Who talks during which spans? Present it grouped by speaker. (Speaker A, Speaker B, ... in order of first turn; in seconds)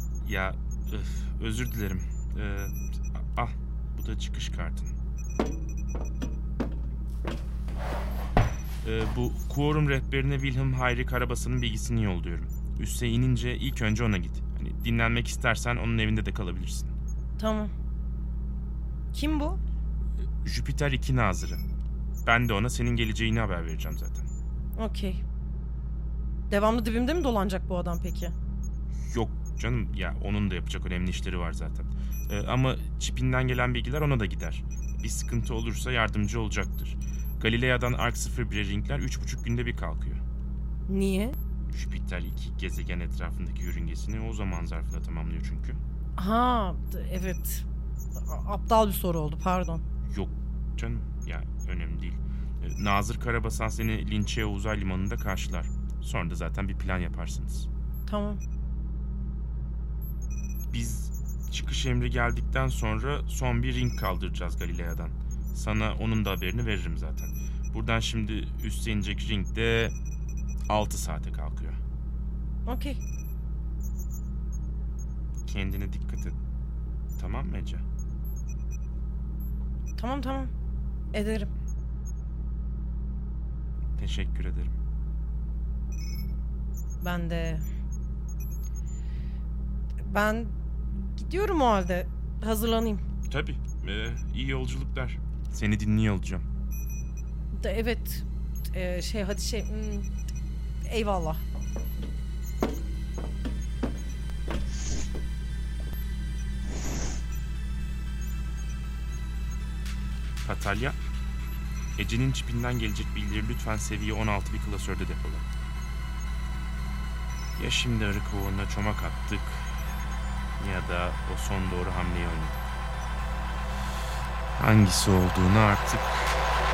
Speaker A: 0.2-4.9, 8.8-16.9, 20.4-21.6, 22.3-24.3, 29.0-40.2, 41.7-45.8, 50.0-57.7, 60.7-70.0, 70.7-71.8, 75.5-76.4, 77.2-77.8, 84.0-84.8, 93.3-96.5, 110.4-111.0, 112.0-115.5, 117.6-119.7, 120.6-122.6, 124.6-126.4
Speaker B: 17.4-17.7, 19.1-19.6, 24.8-25.2, 26.5-28.3, 40.9-41.4, 46.2-47.6, 48.3-49.8, 58.1-58.4, 72.7-73.0, 80.0-80.5, 81.1-81.5, 87.0-87.7, 90.0-93.0, 97.5-100.1, 100.9-101.4